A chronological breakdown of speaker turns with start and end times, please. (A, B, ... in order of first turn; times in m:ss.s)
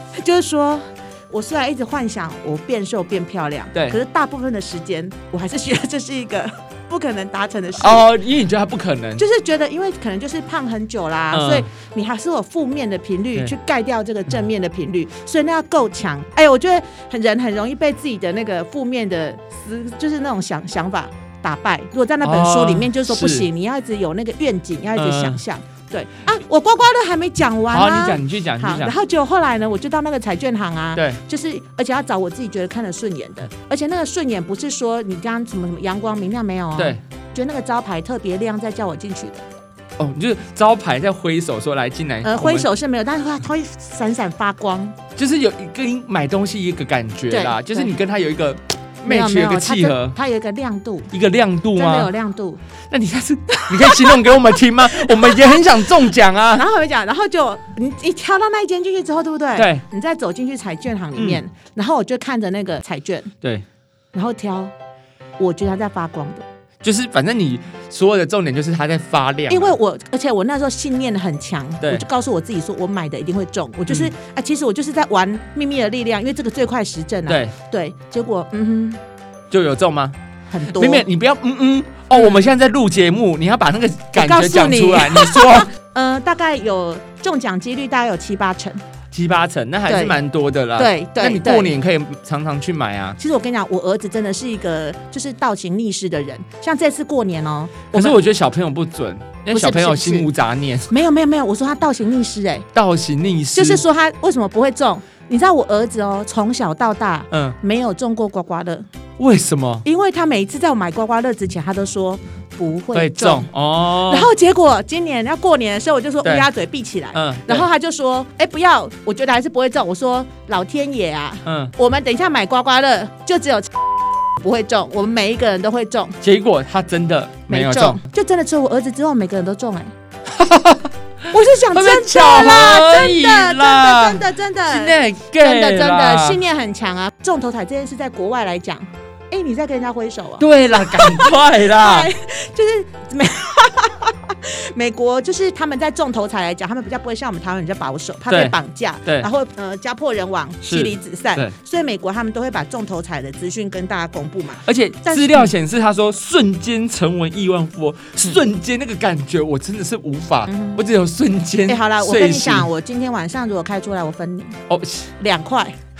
0:00.2-0:08.1 A
0:07.8-0:09.2 B
0:09.2-0:39.4 A
0:11.3-0:11.7 B
0:22.2-0:23.5 B
0:25.0-0:25.4 B
0:27.7-0:28.9 B
0:36.8-0:37.0 B
0:40.0-0:42.7 B
0:42.2-0:45.0 A
0:45.2-0:50.2 B
0:47.3-0:47.9 A
0:49.0-0:51.1 A
0:51.1-0:52.1 B
0:51.7-0:52.6 A
0:52.9-0:56.6 B
0:53.5-0:54.3 A
0:54.9-0:55.8 A
0:56.5-1:03.3 A
0:59.5-0:59.8 B
1:04.1-1:04.7 A
1:05.4-1:06.4 A
1:06.8-1:09.8 B
1:09.5-1:19.0 A
1:17.3-1:17.5 B
1:19.5-1:20.2 B
1:20.5-1:21.0 A
1:20.7-1:25.7 B
1:22.1-1:22.4 A
1:24.1-1:28.8 A
1:29.1-1:33.2 B
1:29.9-1:30.2 A
1:30.8-1:31.7 A
1:33.2-1:38.2 A
1:37.9-1:40.9 B
1:39.5-1:40.3 A
1:40.9-1:42.7 A
1:42.7-1:43.8 B
1:43.5-1:48.9 A
1:47.3-1:47.6 B
1:49.2-1:49.8 B
1:49.8-2:03.7 A
1:52.9-1:54.3 B
1:57.1-1:57.7 B
2:01.4-2:01.7 B
2:04.4-2:06.2 A
2:06.2-2:08.0 B
2:07.5-2:09.9 A
2:10.3-2:10.9 B
2:11.3-2:35.5 A
2:11.7-2:16.4 B
2:20.4-2:22.1 B
2:28.3-2:29.3 B
2:30.6-2:31.5 B
2:34.6-2:42.7 B
2:40.5-2:40.8 A
2:41.7-2:44.6 A
2:44.7-2:45.1 B
2:45.2-2:45.8 A